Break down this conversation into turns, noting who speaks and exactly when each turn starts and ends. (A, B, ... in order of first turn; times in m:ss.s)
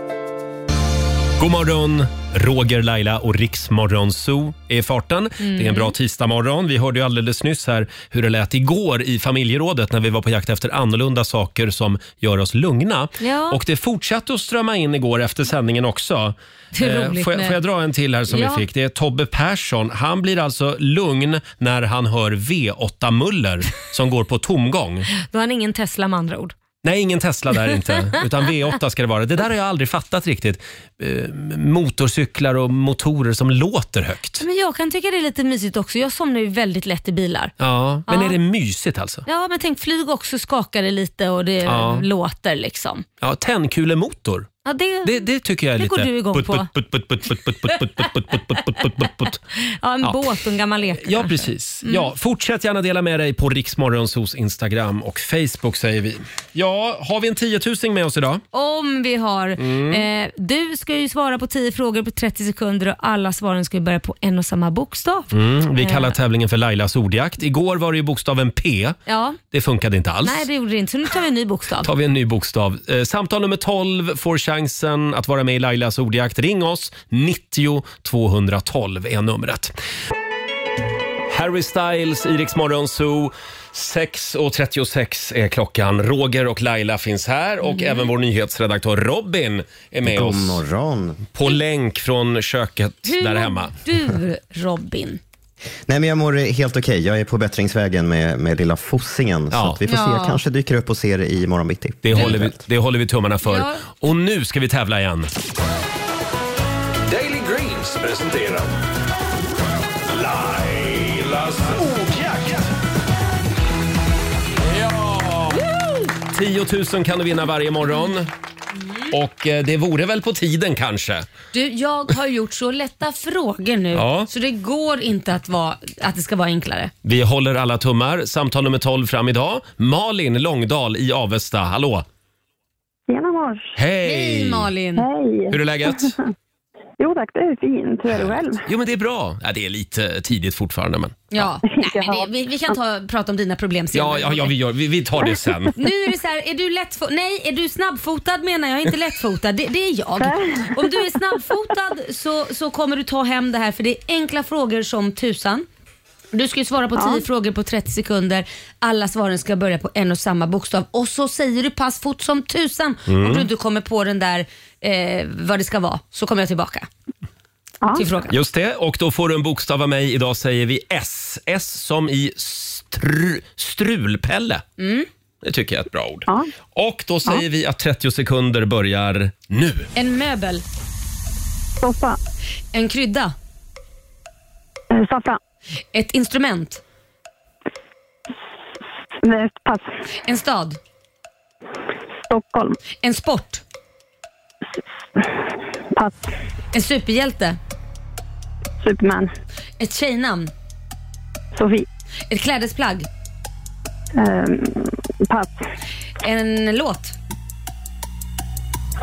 0:01.4-0:25.1 A
0:05.4-0:05.9 B
0:13.2-0:13.6 B
0:16.8-0:17.6 B
0:18.3-0:18.6 B
0:25.2-0:26.5 B
0:26.8-0:34.4 A
0:34.4-0:37.5 B
0:37.6-0:39.2 A
0:38.1-0:38.4 B
0:39.2-0:43.0 B
0:41.6-0:42.0 A
0:43.2-0:49.4 A
0:44.6-0:46.7 B
0:47.7-0:48.0 B
0:49.6-0:52.1 B
0:50.0-0:50.3 A
0:51.0-0:58.4 A
0:58.5-1:06.2 B
0:59.6-1:00.0 A
1:05.3-1:09.0 A
1:09.1-1:09.4 B
1:09.5-1:10.4 A
1:10.2-1:11.9 B
1:11.8-1:19.7 A
1:21.3-1:30.6 A
1:27.7-1:28.0 B
1:30.0-1:31.2 C
1:31.3-1:33.8 A
1:33.0-1:35.2 B
1:35.9-1:42.5 C
1:39.5-1:39.8 A
1:39.9-1:40.4 B
1:42.0-1:45.3 A
1:43.4-1:43.8 B
1:47.1-1:48.7 D
1:50.1-1:52.7 D
1:54.6-1:55.6 D
1:56.3-1:58.3 A
1:58.8-1:59.1 B
1:59.1-2:01.3 A
2:01.5-2:06.9 B
2:03.9-2:04.3 A
2:07.0-2:12.0 A
2:13.1-2:13.7 E
2:13.8-2:14.7 A
2:14.0-2:15.1 B
2:15.0-2:16.1 E
2:15.5-2:16.2 A
2:17.0-2:18.6 E
2:18.1-2:21.5 A
2:21.3-2:24.5 B
2:21.6-2:22.3 E
2:23.9-2:25.7 A
2:25.8-2:35.6 B
2:30.2-2:31.0 E
2:36.3-2:46.9 B
2:43.1-2:43.5 A
2:47.9-2:48.4 B
2:48.3-2:54.6 A
2:54.8-2:55.1 B
2:55.4-2:59.9 A
3:00.0-3:00.6 B
3:01.8-3:02.2 E
3:02.7-3:03.3 B
3:04.9-3:05.4 E
3:05.9-3:06.8 B
3:09.2-3:09.9 E
3:10.2-3:10.8 B
3:12.2-3:12.8 E
3:13.0-3:13.6 B
3:15.9-3:16.3 E
3:16.7-3:17.6 B
3:18.8-3:19.3 E
3:19.8-3:20.5 B
3:21.6-3:21.8 E
3:22.3-3:23.1 B
3:24.1-3:25.6 E
3:26.2-3:27.2 B